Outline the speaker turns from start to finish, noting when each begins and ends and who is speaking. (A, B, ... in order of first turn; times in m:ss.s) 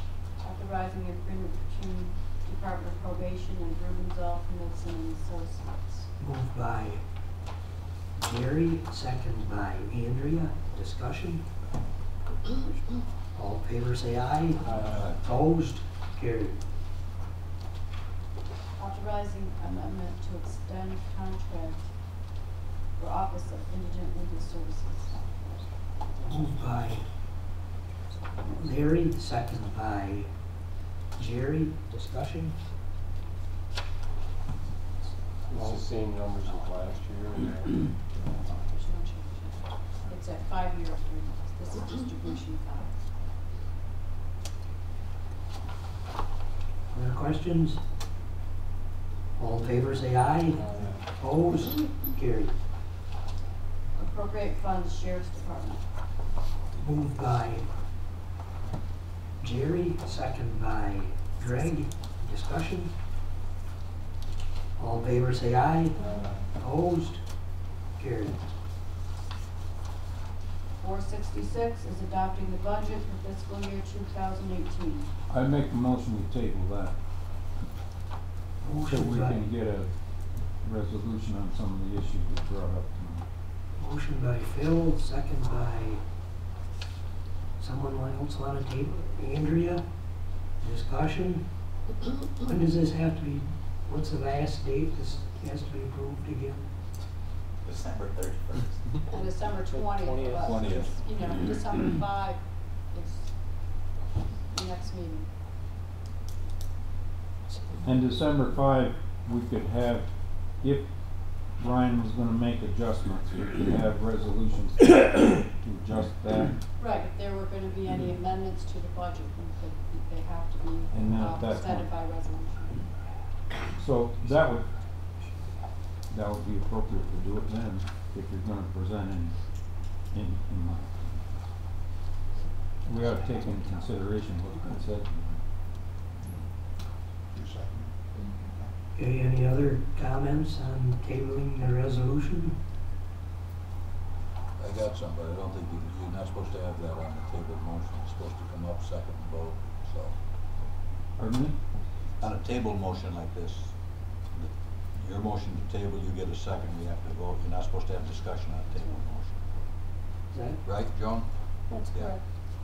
0:00.4-0:06.1 A
0:06.2-0:07.0 B
0:08.2-0:11.5 B
0:13.3-0:16.6 B
0:14.8-0:15.2 C
0:18.8-0:21.9 A
0:23.0-0:25.5 A
0:26.2-0:26.4 A
0:26.3-0:27.0 B
0:28.5-0:30.3 B
0:31.2-0:32.6 B
0:35.5-0:37.9 D
0:38.2-0:42.9 A
0:46.9-0:47.8 B
0:49.4-0:52.6 B
0:54.0-0:55.8 A
0:56.8-0:57.7 B
0:59.4-1:02.9 B
1:04.8-1:07.2 B
1:06.0-1:06.3 A
1:08.0-1:08.4 B
1:10.8-1:15.1 A
1:15.3-1:16.9 E
1:18.6-1:19.4 B
1:18.9-1:23.2 E
1:23.8-1:26.0 B
1:27.6-1:29.8 B
1:30.6-1:31.5 B
1:32.4-1:36.7 B
1:37.7-1:38.5 F
1:39.1-1:43.4 A
1:40.2-1:40.5 D
1:40.4-1:40.9 C
1:44.5-1:45.3 A
1:47.8-1:56.6 E
1:56.8-2:02.8 A
2:00.9-2:01.9 E
2:03.8-2:04.7 E
2:06.1-2:09.4 E
2:10.1-2:11.2 E
2:12.8-2:15.2 E
2:17.3-2:18.6 F
2:19.0-2:22.6 B
2:24.6-2:30.2 C
2:31.2-2:31.6 E
2:32.2-2:33.7 C
2:34.3-2:39.4 C
2:38.7-2:39.0 A
2:40.3-2:40.6 B
2:40.6-2:41.3 C
2:41.7-2:42.2 A
2:41.9-2:42.2 C